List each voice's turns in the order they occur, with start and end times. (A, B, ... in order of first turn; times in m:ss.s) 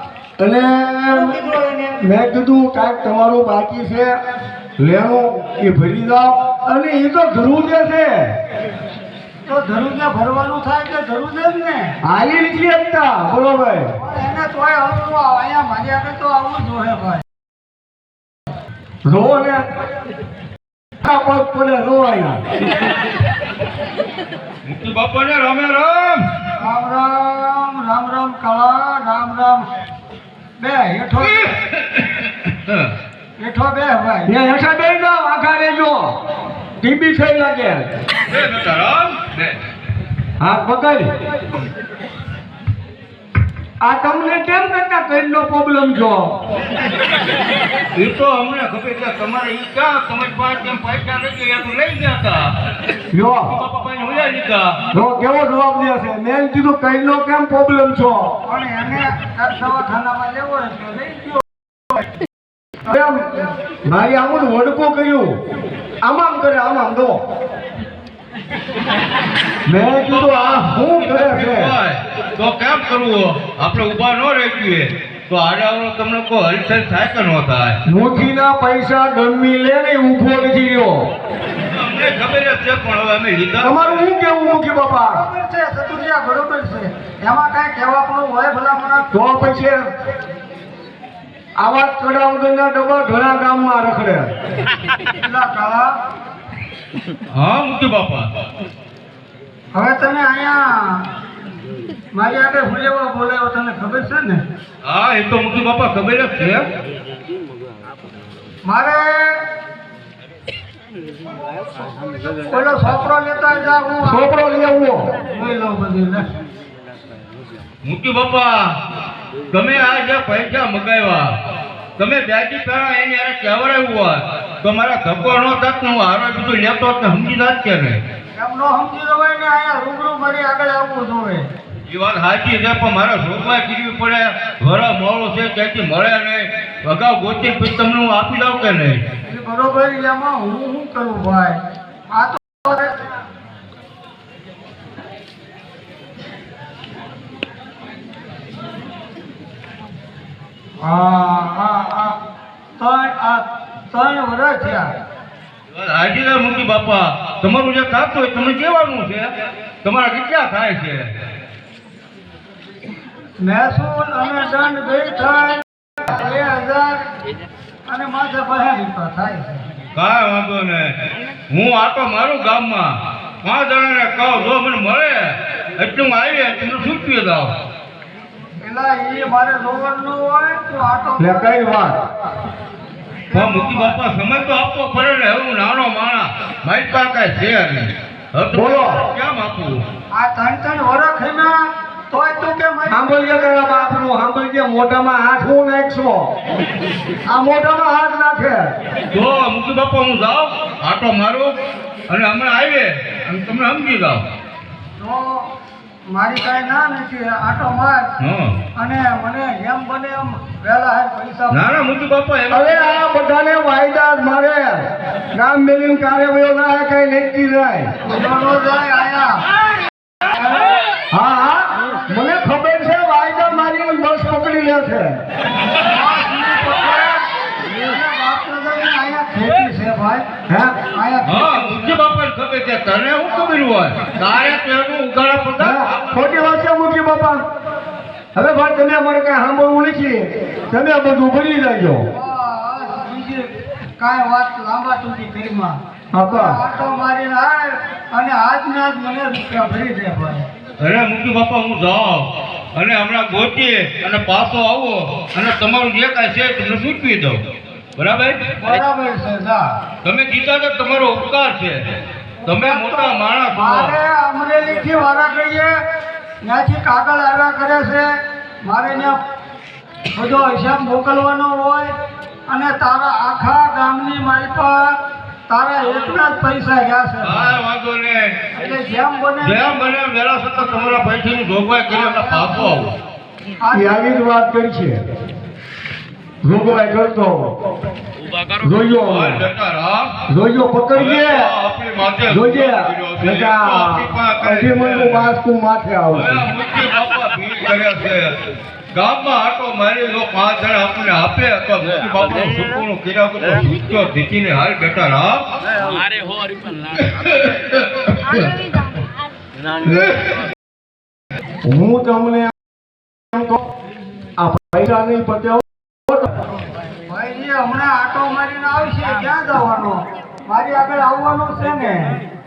0:00.4-0:01.4 A
0:01.1-0:02.0 B
0:02.0-0:04.2 A
0:04.8-0:08.3 A
0:09.4-0:11.9 B
0:12.0-0:13.9 A
0:14.0-0:17.2 B
0:19.0-0:19.6 A
0:21.0-0:22.4 A
0:24.6-0:26.2 C
0:26.6-0:29.7 B
0:30.6-0:31.5 B
0:31.5-0:32.9 C
0:33.4-0:34.4 B
0:34.2-0:36.1 A
0:36.8-0:37.9 A
0:38.3-0:39.6 C
0:40.4-0:41.1 A
0:43.8-0:46.3 A
0:47.9-0:52.5 C
0:53.1-0:53.6 A
0:53.5-0:54.8 C
0:54.9-0:58.3 A
0:58.4-1:01.4 B
1:02.8-1:05.4 A
1:06.0-1:07.2 A
1:09.7-1:11.8 A
1:09.9-1:17.8 C
1:17.8-1:21.1 A
1:21.7-1:24.0 C
1:23.6-1:25.2 A
1:25.1-1:29.1 B
1:29.1-1:29.8 A
1:31.6-1:34.3 A
1:35.2-1:35.9 B
1:37.3-1:38.3 C
1:39.7-1:41.0 B
1:42.1-1:44.4 B
1:44.8-1:46.7 C
1:48.6-1:49.4 B
1:52.4-1:54.3 B
1:54.0-1:55.1 A
1:55.2-1:56.3 B
1:57.8-1:58.7 C
1:59.5-2:01.3 C
2:02.0-2:08.0 C
2:08.3-2:11.5 B
2:11.9-2:19.0 C
2:19.3-2:23.0 B
2:30.8-2:32.2 B
2:32.8-2:34.9 B
2:35.7-2:39.3 C
2:39.8-2:41.1 C
2:43.4-2:47.0 B
2:47.8-2:49.6 B
2:50.0-2:50.9 C
2:51.5-2:57.5 C
2:58.6-3:01.5 B
3:01.2-3:02.0 A
3:03.3-3:04.0 B
3:03.3-3:09.8 C
3:08.5-3:09.1 A
3:10.1-3:13.9 B
3:12.9-3:16.3 A
3:17.2-3:18.7 A
3:19.1-3:21.5 C
3:22.1-3:24.2 C
3:25.0-3:25.5 B
3:26.1-3:28.1 B
3:28.2-3:28.6 C
3:28.8-3:31.8 B
3:31.5-3:33.0 C
3:32.5-3:37.9 A
3:38.0-3:39.5 B
3:40.3-3:40.7 B
3:41.1-3:45.2 A
3:45.8-3:50.3 B
3:50.5-3:50.8 A
3:50.9-3:52.1 B
3:51.2-3:56.4 C
3:53.3-3:53.6 B
3:55.6-3:57.4 A
3:58.3-4:02.1 A
4:02.1-4:10.5 B
4:06.1-4:06.6 A
4:10.8-4:17.4 C
4:18.0-4:18.8 C
4:18.6-4:19.8 B
4:20.0-4:21.8 C
4:22.4-4:25.8 B
4:22.5-4:24.0 C
4:26.4-4:28.1 B
4:28.6-4:29.2 B
4:30.1-4:31.9 B
4:32.5-4:35.0 B
4:35.5-4:37.6 B
4:37.2-4:38.4 C
4:38.5-4:39.8 B
4:39.4-4:42.9 C
4:41.9-4:42.8 B
4:43.6-4:44.0 B
4:43.7-4:45.0 A
4:46.4-4:47.5 A
4:48.6-4:49.5 A
4:48.9-4:50.1 C
4:50.3-4:51.5 A
4:51.0-4:55.4 C
4:52.3-4:56.5 A
4:56.1-4:58.3 C
4:59.0-5:09.0 C
5:09.8-5:10.3 C
5:11.6-5:12.5 A
5:13.3-5:13.6 A
5:14.4-5:16.3 A
5:17.0-5:22.2 B